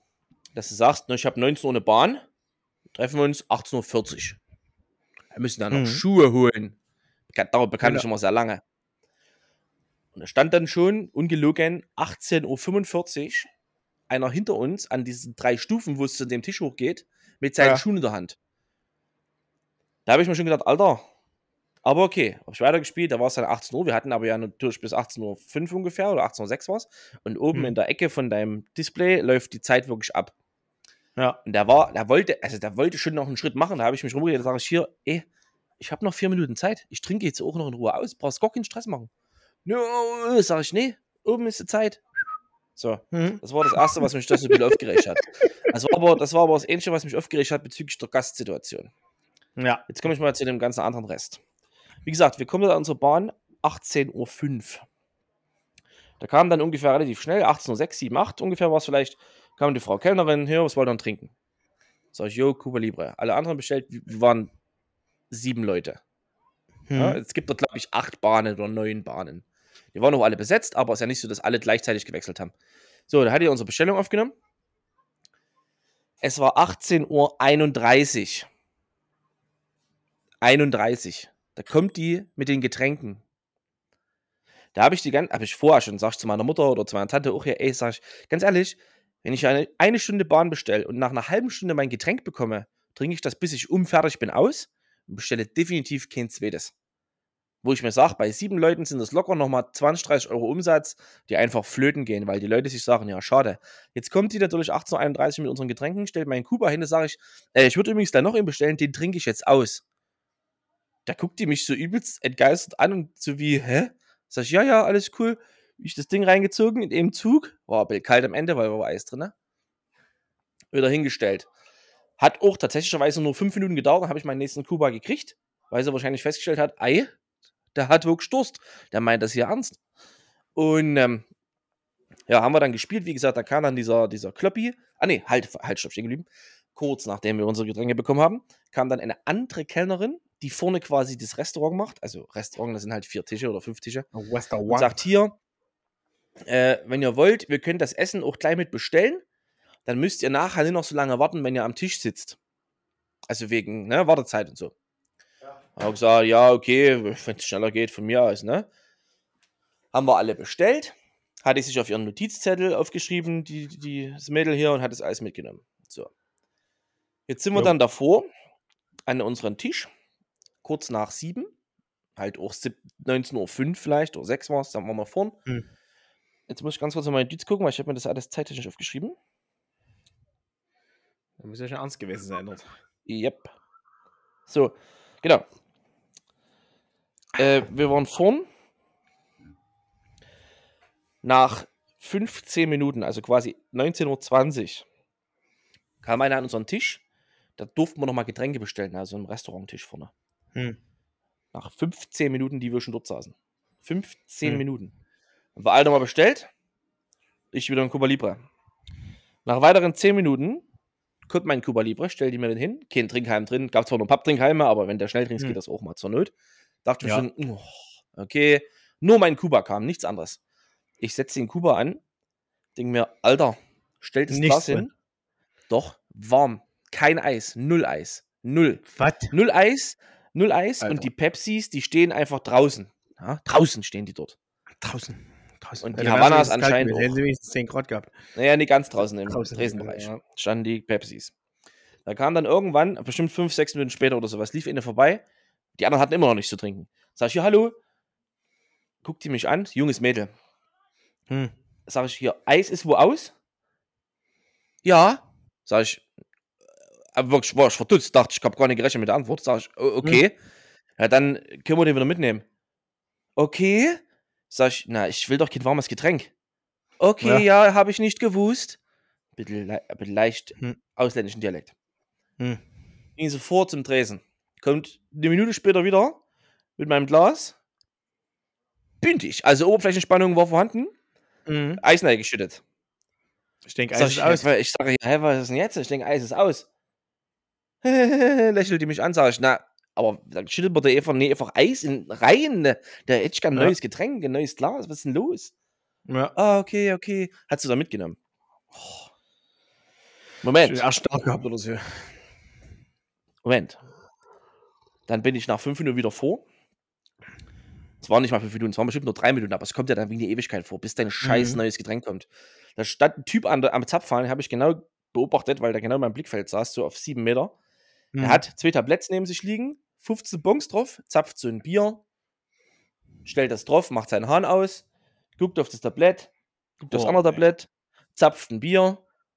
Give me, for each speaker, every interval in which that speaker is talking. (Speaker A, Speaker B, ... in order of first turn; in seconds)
Speaker A: 0.5-2.2, 2.9-4.4, 5.3-6.8, 7.3-8.6, 10.1-13.5, 14.1-18.4, 20.1-21.0, 21.8-30.3, 31.4-35.2, 35.8-39.1, 39.6-42.0, 42.8-48.9, 49.9-51.4, 52.0-54.8, 56.2-61.3, 62.1-64.5, 65.3-66.0, 66.9-72.5, 73.1-74.3, 76.2-78.5, 80.4-83.2, 84.7-96.7, 97.6-109.8, 111.0-119.3, 120.7-121.5, 122.2-127.1, 127.7-129.8, 130.6-131.2, 132.3-144.1, 144.7-145.3, 146.4-149.2, 149.8-152.4, 153.3-154.7, 155.8-158.7, 159.9-166.1, 167.3-168.3, 169.1-169.9, 170.6-171.5, 172.2-175.4, 176.5-179.2, 183.1-183.5, 184.5-185.4, 187.3-188.4, 191.2-194.8, 196.0-197.0, 197.6-200.1, 201.5-204.9, 205.6-206.5, 207.5-208.4, 209.4-210.6, 211.3-216.3, 216.8-220.4, 221.0-222.0, 222.8-224.9, 225.7-234.3, 235.8-237.1, 238.3-241.3, 242.0-245.2, 245.8-247.8, 249.0-250.3, 251.9-253.3, 254.8-256.0, 257.1-260.3, 261.0-262.4, 263.4-266.3, 267.0-268.8, 269.4-271.7, 273.2-276.2, 276.8-277.6, 279.0-280.9, 281.8-282.6, 283.9-286.7, 287.8-295.5, 296.4-298.2, 298.8-299.0, 300.4-300.8, 303.4-303.8, 305.1-306.4, 308.0-317.5, 318.2-322.0, 323.2-324.8, 325.4-326.3, 326.9-329.0
Speaker B: 5.7-6.0, 17.6-17.8, 43.1-45.0, 49.6-49.9, 66.9-67.2, 144.1-144.9, 181.4-182.7, 224.3-224.9, 228.9-229.3, 230.8-231.1, 234.8-238.1, 239.3-240.2, 281.5-281.8, 283.7-284.4, 296.1-296.3, 300.6-302.1, 311.2-311.6, 318.1-318.4, 326.8-327.4